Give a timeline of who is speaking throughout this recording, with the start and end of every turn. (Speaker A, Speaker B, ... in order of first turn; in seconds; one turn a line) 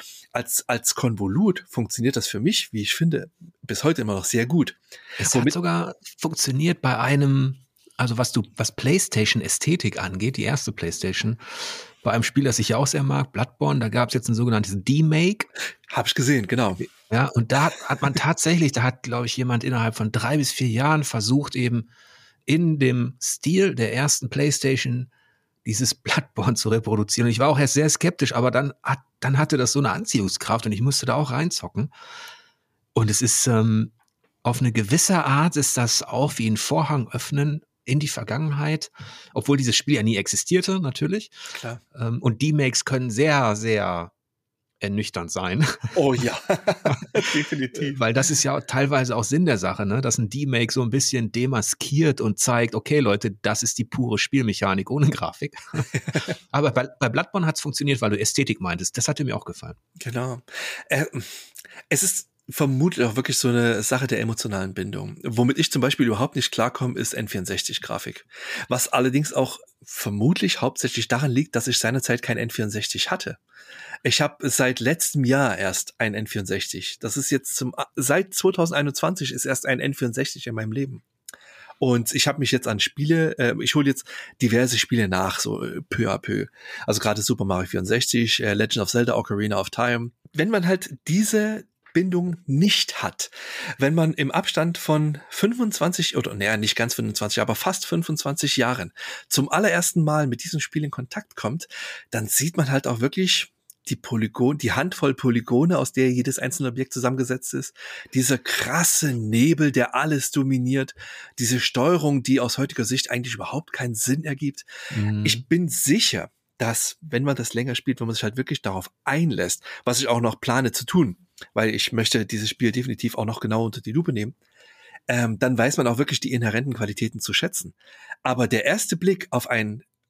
Speaker A: 0.3-5.5
Speaker B: 5.2-15.5
Speaker A: 15.9-16.9
Speaker B: 17.1-21.9
Speaker B: 22.5-25.1
Speaker B: 25.6-31.9
Speaker B: 32.9-33.9
Speaker B: 34.4-41.3
Speaker A: 41.5-41.8
Speaker B: 41.9-44.1
Speaker B: 44.8-45.9
Speaker A: 45.9-48.0
Speaker B: 47.8-59.8
Speaker A: 60.0-73.4
Speaker A: 74.0-81.0
Speaker A: 81.8-114.7
Speaker B: 114.9-115.4
Speaker A: 115.2-124.3
Speaker A: 125.1-129.8